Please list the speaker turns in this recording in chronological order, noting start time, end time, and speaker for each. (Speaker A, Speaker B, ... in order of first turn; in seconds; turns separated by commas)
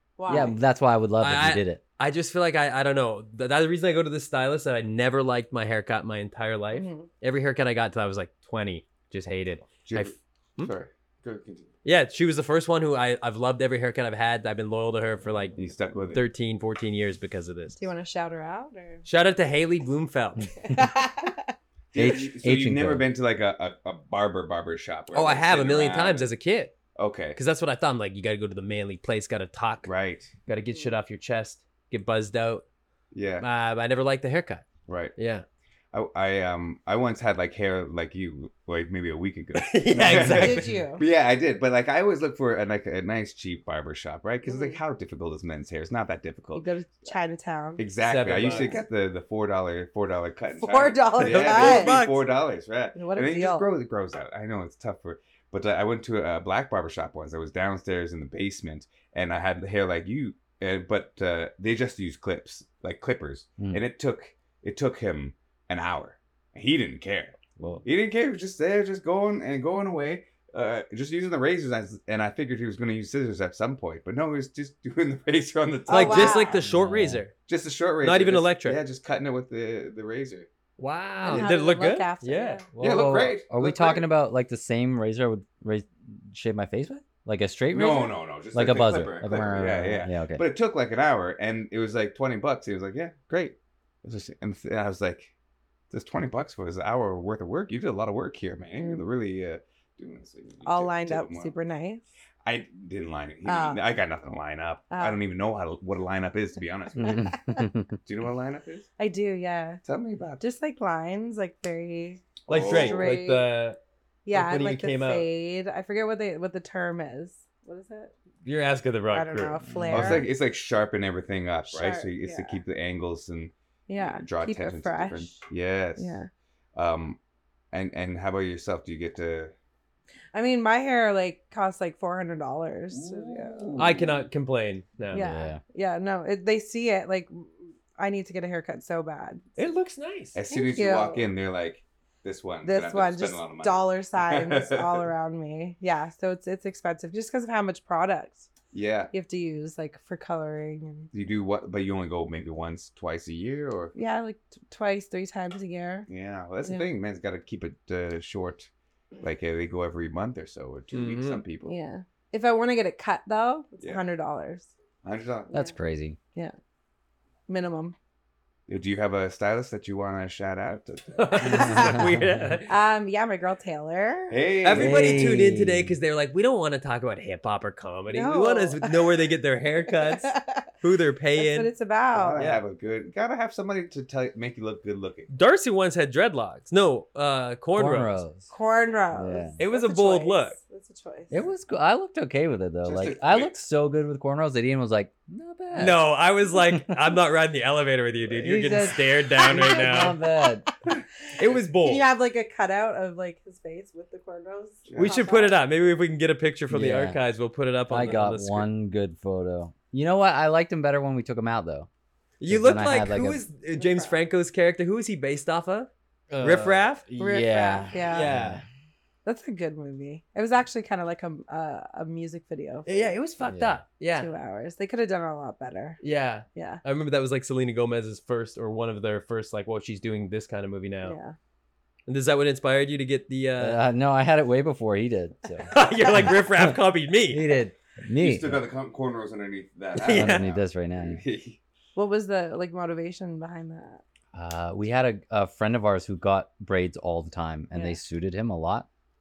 Speaker A: 0.2-0.6, Speaker B: 0.3-1.8, Speaker C: 1.2-10.7, Speaker A: 6.7-7.1, Speaker D: 9.8-11.7, Speaker C: 11.8-15.6, Speaker D: 15.6-16.2, Speaker C: 16.1-17.9, Speaker A: 17.8-19.1, Speaker C: 19.1-20.5, Speaker A: 20.6-21.5, Speaker D: 21.9-26.3, Speaker B: 21.9-23.1, Speaker C: 25.1-26.8, Speaker D: 27.0-27.4, Speaker C: 27.4-29.9, Speaker D: 29.9-30.3, Speaker C: 30.5-32.6, Speaker D: 33.1-33.5, Speaker C: 33.4-35.5, Speaker D: 34.9-35.1, Speaker D: 35.9-46.7, Speaker C: 39.6-40.8, Speaker A: 40.2-41.0, Speaker A: 44.5-44.8, Speaker A: 46.5-47.8, Speaker D: 47.8-76.5, Speaker C: 48.0-48.8, Speaker A: 48.5-48.8, Speaker A: 50.6-52.0, Speaker C: 51.2-52.2, Speaker A: 53.0-53.7, Speaker B: 67.6-67.8, Speaker A: 75.9-76.6, Speaker C: 75.9-77.3, Speaker B: 76.6-77.2, Speaker D: 77.5-80.5, Speaker C: 78.0-78.8, Speaker C: 80.8-83.3, Speaker A: 81.2-82.7, Speaker D: 82.8-84.1, Speaker B: 82.8-90.4, Speaker D: 87.7-95.3, Speaker D: 95.9-101.5, Speaker A: 98.8-99.0, Speaker A: 100.6-102.0, Speaker D: 102.4-107.3, Speaker A: 103.5-103.8, Speaker A: 104.9-105.2, Speaker B: 107.0-108.0, Speaker A: 107.0-107.7, Speaker D: 108.0-108.9, Speaker A: 109.0-109.8, Speaker D: 109.8-110.4, Speaker A: 110.4-113.5, Speaker D: 112.5-113.1, Speaker C: 112.5-113.8, Speaker A: 114.3-118.1, Speaker C: 114.3-115.3, Speaker C: 118.4-119.6, Speaker A: 119.1-120.3, Speaker B: 119.7-120.2, Speaker D: 119.9-126.2, Speaker A: 121.7-122.6, Speaker A: 123.9-125.4, Speaker A: 126.0-126.3, Speaker D: 126.8-127.2, Speaker D: 127.7-129.5, Speaker A: 130.3-133.9, Speaker D: 132.9-134.3, Speaker C: 133.8-135.3, Speaker B: 135.1-135.6, Speaker A: 135.1-139.4, Speaker C: 139.6-140.4, Speaker D: 140.3-145.1, Speaker A: 140.5-141.3, Speaker A: 142.6-148.5, Speaker D: 148.7-149.1, Speaker A: 149.1-151.1, Speaker D: 151.1-153.9, Speaker A: 153.9-156.1, Speaker D: 156.1-158.7, Speaker D: 159.2-161.7, Speaker C: 160.9-161.4, Speaker A: 161.7-164.7, Speaker D: 165.0-165.5, Speaker B: 165.5-166.2, Speaker A: 167.5-167.9, Speaker D: 168.7-171.9, Speaker C: 171.2-172.7, Speaker B: 171.5-172.5, Speaker A: 172.7-174.6, Speaker D: 174.3-175.5, Speaker C: 174.7-181.7, Speaker B: 174.7-176.0, Speaker A: 178.1-179.1, Speaker A: 179.9-180.7, Speaker A: 181.4-182.4, Speaker D: 182.1-185.3, Speaker C: 182.4-182.6, Speaker C: 185.3-188.2, Speaker B: 187.8-188.5, Speaker A: 188.5-191.4, Speaker B: 189.1-189.5, Speaker C: 189.6-190.6, Speaker B: 191.3-196.0, Speaker D: 192.8-193.6, Speaker C: 195.7-200.2, Speaker B: 196.7-197.0, Speaker B: 198.3-200.7, Speaker C: 201.4-202.1, Speaker A: 201.6-205.6, Speaker D: 204.9-205.2, Speaker C: 205.0-208.7, Speaker B: 206.7-207.2, Speaker B: 207.9-211.9, Speaker C: 212.4-217.1, Speaker B: 212.5-213.4, Speaker A: 213.7-214.2, Speaker B: 216.4-218.6, Speaker A: 217.2-218.3, Speaker C: 218.1-218.6, Speaker A: 219.2-223.1, Speaker C: 222.9-224.3, Speaker B: 223.4-223.8, Speaker A: 224.1-226.0, Speaker C: 226.0-231.2, Speaker A: 226.6-226.8, Speaker A: 231.0-231.4, Speaker C: 232.1-233.8, Speaker B: 233.6-236.8, Speaker C: 235.7-237.4, Speaker B: 237.3-238.6, Speaker D: 238.2-241.6, Speaker C: 240.0-240.5, Speaker B: 240.1-241.2, Speaker A: 242.0-244.0, Speaker B: 244.3-248.9